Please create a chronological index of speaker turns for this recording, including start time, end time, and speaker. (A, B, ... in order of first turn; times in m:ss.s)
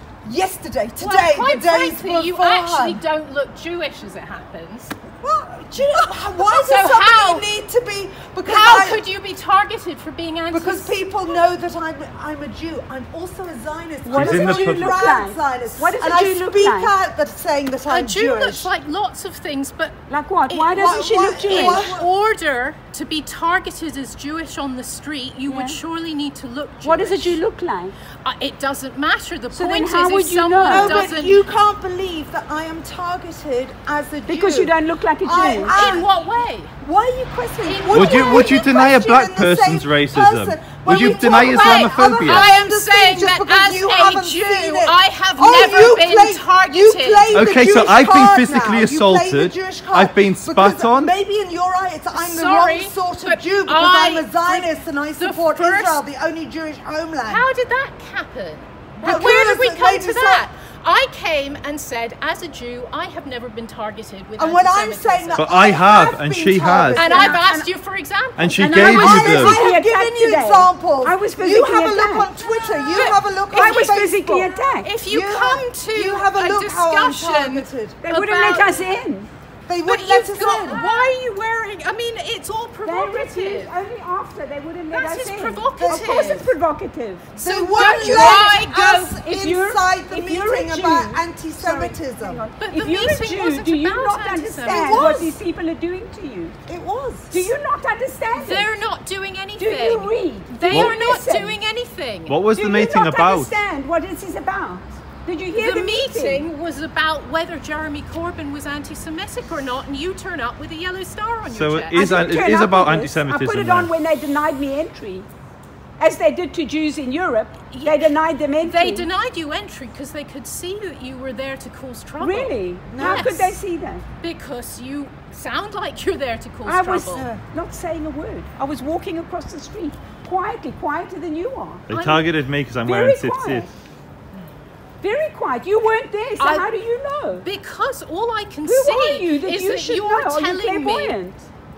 0:00.2-0:03.0 A
0:01.0-0:04.9 B
0:05.2-0:09.0 A
0:06.4-0:07.4 B
0:08.4-0:11.0 B
0:10.5-0:18.7 A
0:14.0-0:16.9 C
0:14.1-0:15.0 D
0:17.9-0:20.0 B
0:20.1-0:21.8 C
0:20.5-0:27.4 B
0:20.7-0:22.1 A
0:25.5-0:25.8 C
0:26.8-0:27.9 C
0:28.2-0:31.4 B
0:29.5-0:30.9 C
0:30.7-0:36.1 A
0:34.3-0:35.9 C
0:35.7-0:36.7 B
0:36.8-0:57.4 A
0:37.6-0:38.6 B
0:37.9-0:42.5 D
0:41.0-0:47.5 B
0:47.3-0:51.1 D
0:52.1-0:56.0 B
0:57.3-1:05.4 B
0:59.0-1:00.4 A
1:04.4-1:07.4 A
1:05.4-1:07.1 D
1:07.0-1:09.4 B
1:07.0-1:07.7 C
1:08.4-1:09.6 D
1:08.6-1:12.3 C
1:08.7-1:14.5 A
1:12.9-1:13.8 B
1:13.5-1:14.9 C
1:14.8-1:19.0 B
1:15.0-1:18.0 A
1:18.0-1:19.3 C
1:19.7-1:20.8 A
1:19.8-1:23.7 B
1:20.8-1:21.1 C
1:22.8-1:28.6 C
1:24.9-1:26.5 B
1:25.8-1:26.2 A
1:27.4-1:29.2 B
1:27.4-1:32.4 A
1:29.1-1:36.6 C
1:32.6-1:35.3 B
1:34.7-1:35.3 A
1:36.7-1:37.5 A
1:37.3-1:38.7 C
1:38.4-1:42.4 B
1:39.6-1:41.6 C
1:40.7-1:40.9 D
1:42.3-1:43.5 D
1:42.5-1:46.4 C
1:45.6-1:52.2 B
1:51.5-1:53.9 D
1:51.9-1:55.3 C
1:56.0-1:59.1 C
1:57.7-1:58.1 B
1:58.6-2:03.5 B
2:02.2-2:04.0 C
2:02.9-2:03.3 A
2:04.2-2:07.3 B
2:06.6-2:11.8 C
2:11.9-2:13.7 D
2:11.9-2:12.2 B
2:12.8-2:13.7 C
2:15.0-2:17.4 C
2:16.4-2:16.7 B
2:17.4-2:21.2 B
2:18.6-2:21.4 C